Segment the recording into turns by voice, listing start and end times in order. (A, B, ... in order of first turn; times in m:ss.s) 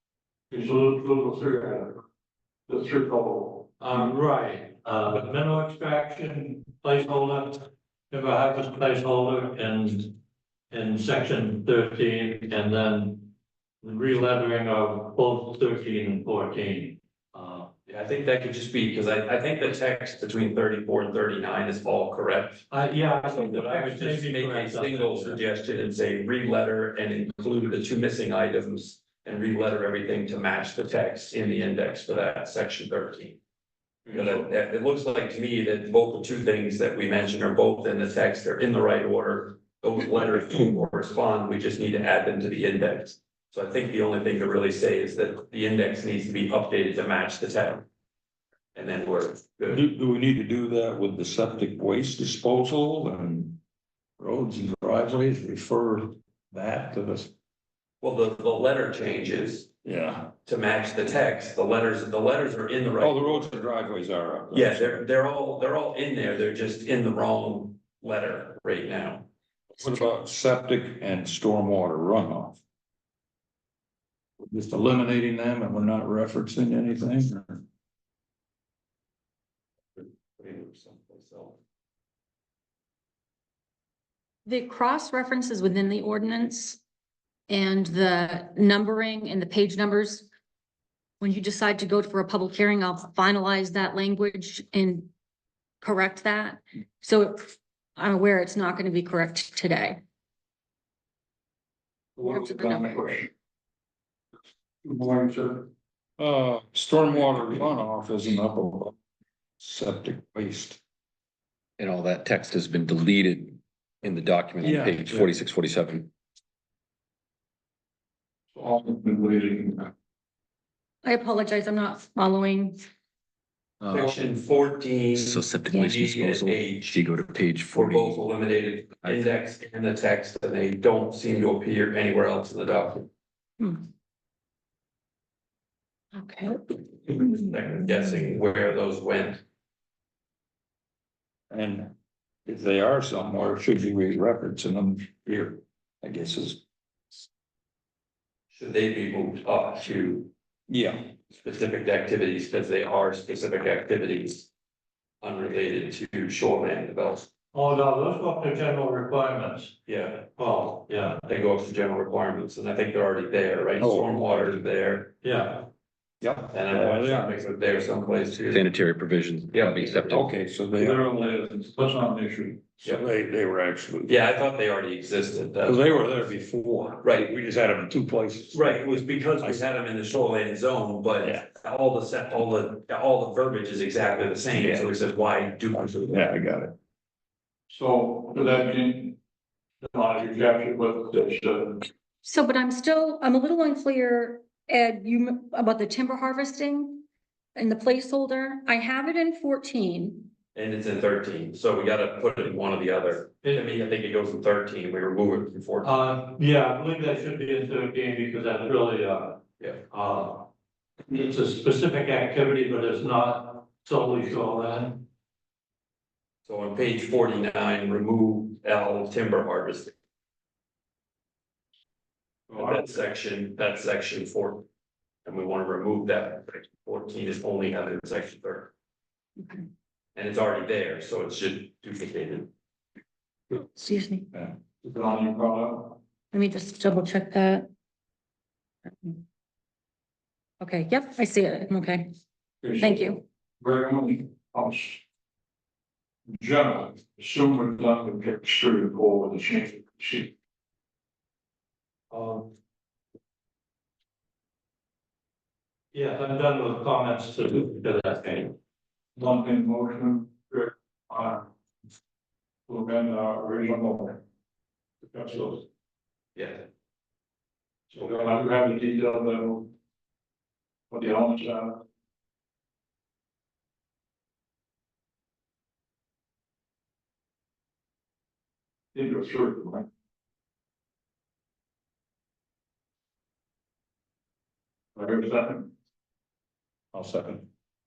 0:00.5-0:02.0 A
0:02.7-0:04.0 A
0:03.8-0:10.2 B
0:10.7-0:13.3 B
0:13.8-0:17.7 B
0:17.9-0:22.7 C
0:22.7-0:25.4 B
0:23.3-0:33.4 C
0:34.1-0:47.9 C
0:48.8-0:49.8 C
0:49.7-0:53.6 D
0:54.2-0:57.3 D
0:58.0-0:59.7 C
0:59.8-1:00.3 D
1:00.5-1:03.4 C
1:03.0-1:05.0 D
1:04.5-1:09.3 C
1:09.8-1:12.6 D
1:14.4-1:17.6 D
1:20.0-1:21.6 C
1:24.5-1:26.8 E
1:27.5-1:30.3 E
1:31.2-1:35.1 E
1:35.8-1:40.0 E
1:42.2-1:43.3 A
1:42.2-1:43.2 E
1:44.8-1:45.7 A
1:46.2-1:49.0 D
1:49.6-1:50.8 D
1:51.8-1:56.1 F
1:54.6-1:55.3 D
1:58.5-1:59.9 A
2:01.0-2:02.8 E
2:03.8-2:04.2 F
2:03.9-2:07.0 C
2:05.2-2:08.2 F
2:07.7-2:13.1 C
2:09.0-2:09.3 F
2:16.1-2:18.4 E
2:17.1-2:19.4 C
2:21.5-2:21.9 D
2:22.5-2:26.6 D
2:28.5-2:30.3 C
2:30.7-2:31.1 D
2:31.4-2:34.5 C
2:35.2-2:37.3 C
2:37.5-2:39.7 B
2:39.9-2:40.4 C
2:40.4-2:41.2 B
2:41.3-2:45.2 C
2:43.8-2:44.2 D
2:45.2-2:45.7 B
2:46.2-2:47.4 D
2:46.5-2:48.7 C
2:48.4-2:50.3 F
2:49.5-2:50.0 C
2:50.0-2:51.1 D
2:50.8-2:52.8 A
2:53.0-2:54.2 D
2:54.1-2:56.0 C
2:55.6-2:59.6 D
2:57.0-2:57.3 C
2:58.5-3:06.2 C
3:04.6-3:04.8 D
3:06.0-3:06.8 D
3:07.7-3:09.2 A
3:09.8-3:11.9 A
3:12.2-3:20.3 E
3:20.6-3:26.0 C
3:25.8-3:29.4 B
3:29.9-3:30.5 B
3:31.1-3:35.0 B
3:36.5-3:40.0 C
3:42.5-3:42.8 A
3:42.5-3:44.7 C
3:45.3-3:48.7 C
3:49.4-3:49.6 E
3:50.2-3:52.5 C
3:53.5-3:54.3 E
3:54.8-3:56.0 A
3:56.3-3:57.7 E
3:58.9-3:59.2 E
4:00.6-4:02.1 E
4:02.6-4:05.0 A
4:02.8-4:03.2 E
4:06.3-4:10.3 A
4:12.1-4:12.4 B
4:15.9-4:18.5 B
4:19.2-4:21.5 A
4:22.7-4:24.2 A
4:25.0-4:25.6 A
4:26.4-4:26.7 C
4:27.9-4:29.7 A
4:30.9-4:31.8 A
4:38.9-4:39.9 A
4:45.0-4:45.7 A
4:46.9-4:47.5 D